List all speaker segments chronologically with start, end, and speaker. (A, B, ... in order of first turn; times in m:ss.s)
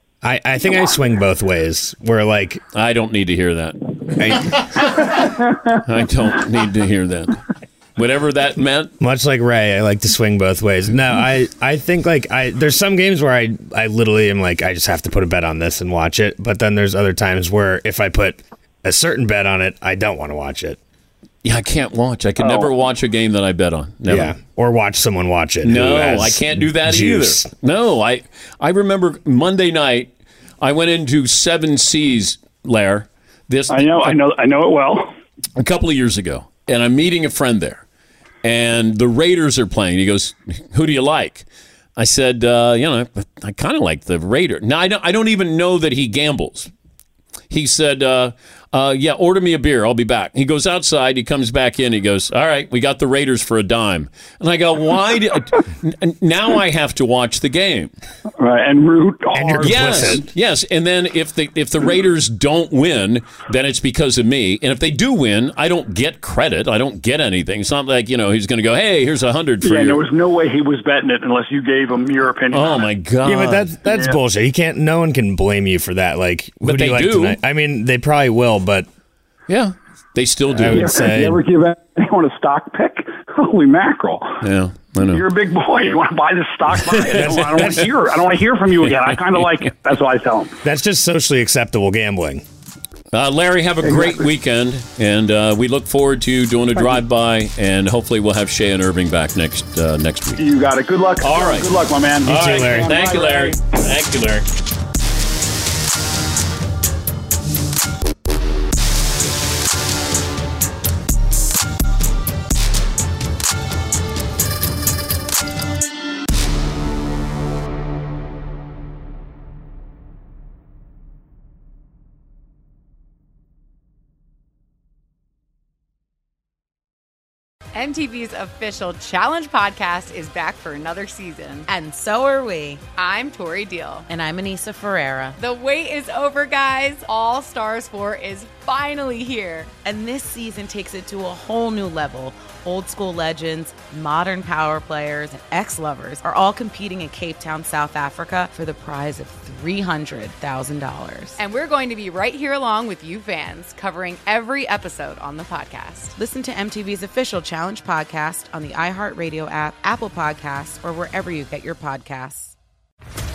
0:00.2-0:02.6 A
0:02.7-0:03.8 B
0:04.2-0:04.6 A
0:04.4-0:04.6 B
0:05.4-0:05.8 C
0:05.8-0:08.9 B
0:09.0-0:20.8 A
0:21.4-0:24.4 B
0:22.4-0:22.7 C
0:24.0-0:27.5 A
0:25.6-0:30.1 B
0:30.6-0:34.2 B
0:33.7-0:35.2 C
0:35.6-0:37.8 B
0:38.4-0:41.4 B
0:42.0-0:46.7 B
0:47.5-0:57.9 B
0:58.4-1:00.2 C
0:59.3-1:00.2 A
0:59.6-1:10.0 B
1:09.6-1:12.9 C
1:12.5-1:13.8 B
1:13.2-1:18.9 A
1:13.9-1:14.2 C
1:16.6-1:17.4 B
1:19.5-1:21.0 B
1:20.5-1:21.4 A
1:20.7-1:24.4 C
1:24.4-1:25.2 B
1:25.0-1:30.6 C
1:26.8-1:27.6 B
1:27.2-1:27.9 A
1:30.6-1:32.4 A
1:33.1-1:40.4 B
1:33.9-1:34.2 C
1:40.4-1:43.6 C
1:41.2-1:44.5 B
1:42.2-1:42.9 A
2:07.7-2:11.7 D
2:11.7-2:12.8 E
2:13.0-2:14.1 D
2:14.1-2:15.4 E
2:15.4-2:19.7 D
2:19.8-2:31.4 E
2:31.4-2:36.1 D
2:36.2-2:42.5 E